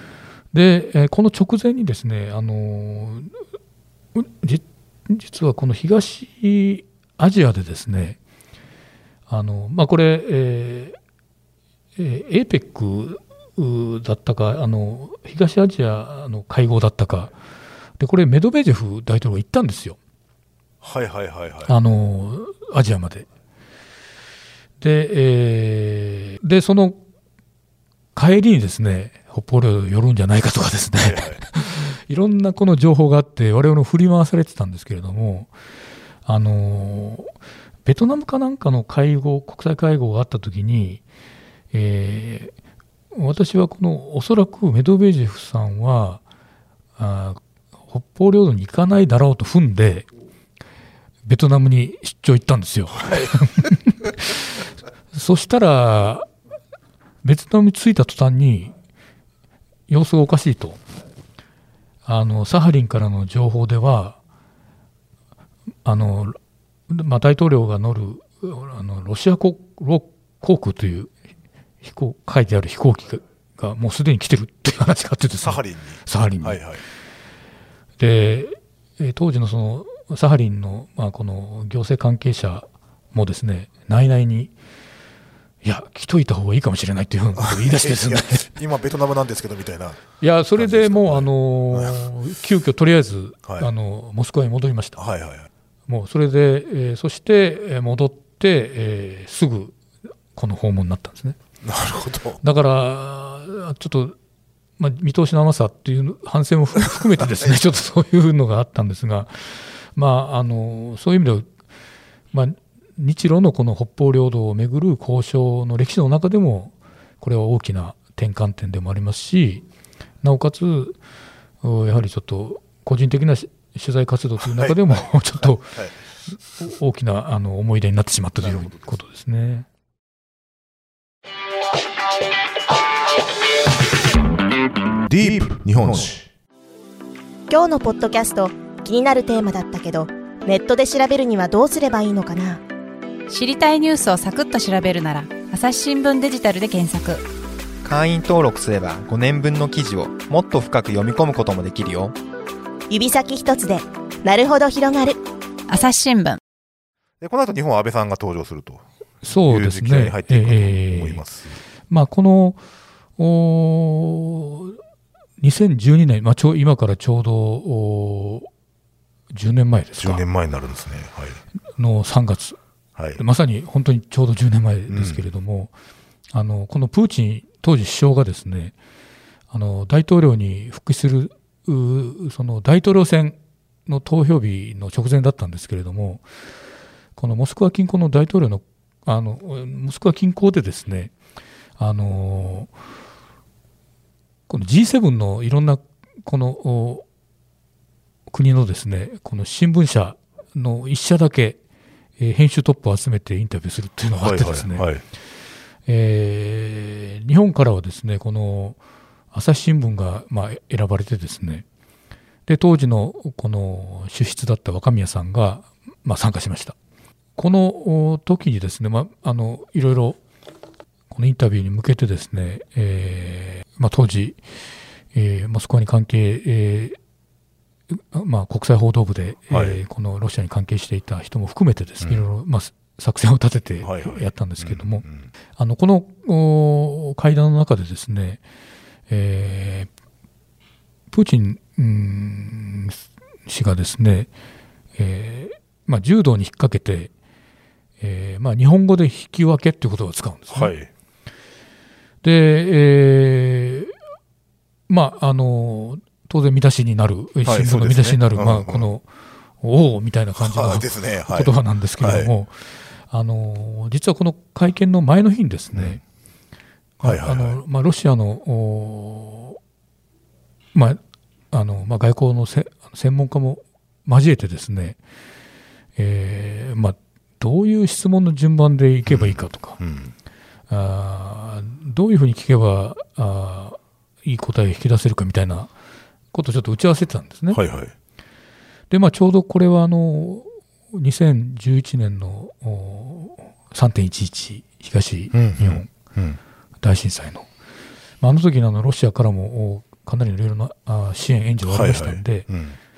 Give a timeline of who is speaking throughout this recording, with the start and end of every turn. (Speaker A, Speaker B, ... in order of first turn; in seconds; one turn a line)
Speaker A: 0.5-3.3
Speaker A: 4.2-8.2
Speaker A: 9.3-11.0
Speaker A: 12.0-17.3
Speaker A: 18.0-20.0
Speaker B: 20.8-21.7
Speaker A: 21.7-23.3
Speaker A: 24.8-27.0
Speaker A: 28.1-35.5
Speaker B: 31.0-31.4
Speaker A: 36.3-37.3
Speaker A: 37.9-41.0
Speaker A: 41.7-42.5
Speaker A: 43.1-46.2
Speaker A: 47.0-50.1
Speaker A: 51.3-54.6
Speaker A: 55.1-56.3
Speaker A: 57.2-58.7
Speaker A: 59.9-60.8
Speaker A: 62.1-64.2
Speaker A: 65.8-66.4
Speaker A: 66.9-71.1
Speaker A: 71.8-76.6
Speaker B: 75.4-76.8
Speaker A: 78.0-84.5
Speaker A: 85.6-88.5
Speaker B: 87.4-92.0
Speaker A: 90.2-95.0
Speaker B: 95.0-95.5
Speaker A: 95.9-99.8
Speaker A: 100.3-101.4
Speaker B: 101.6-102.4
Speaker A: 102.4-104.2
Speaker A: 104.8-111.5
Speaker A: 112.3-119.7
Speaker A: 120.2-121.0
Speaker A: 121.6-125.8
Speaker A: 126.6-129.7
Speaker B: 128.4-128.9
Speaker B: 135.1-136.3
Speaker C: 137.5-142.6
Speaker D: 143.3-147.2
Speaker E: 147.8-152.2
Speaker C: 152.9-155.2
Speaker D: 155.7-156.4
Speaker B: 157.2-158.8
Speaker A: 159.2-161.2
Speaker B: 159.5-161.6
Speaker A: 161.9-162.6
Speaker A: 163.2-164.8
Speaker A: 165.4-168.5
Speaker A: 169.3-170.2
Speaker B: 170.0-171.4
Speaker A: 171.8-172.6
Speaker A: 173.2-175.7
Speaker B: 174.9-175.2
Speaker A: 176.3-178.7
Speaker A: 179.5-186.2
Speaker A: 187.2-191.1
Speaker A: 191.8-192.7
Speaker A: 194.5-197.1
Speaker A: 198.3-201.6
Speaker A: 202.2-204.9
Speaker B: 204.2-205.0
Speaker A: 205.9-208.8
Speaker A: 209.3-211.6
Speaker A: 212.5-216.8
Speaker A: 217.4-220.2
Speaker A: 221.1-224.4
Speaker A: 225.1-227.0
Speaker A: 227.9-235.0
Speaker B: 229.5-229.8
Speaker B: 233.8-235.3
Speaker A: 235.6-238.4
Speaker A: 239.1-239.9
Speaker A: 241.1-244.3
Speaker A: 245.0-247.1
Speaker A: 248.0-250.7
Speaker B: 250.5-250.9
Speaker A: 252.2-253.9
Speaker A: 254.9-259.1
Speaker B: 257.4-258.9
Speaker A: 259.6-262.6
Speaker B: 260.4-262.3
Speaker A: 263.1-266.0
Speaker B: 265.7-266.0
Speaker A: 267.0-269.6
Speaker B: 267.0-267.6
Speaker A: 270.7-271.0
Speaker A: 271.5-275.0
Speaker A: 276.0-279.8
Speaker B: 279.1-280.1
Speaker A: 280.7-285.7
Speaker A: 286.3-287.6
Speaker B: 287.5-287.9
Speaker A: 288.9-295.9
Speaker B: 295.3-296.4
Speaker A: 296.8-297.5
Speaker A: 298.2-302.5
Speaker B: 301.7-302.8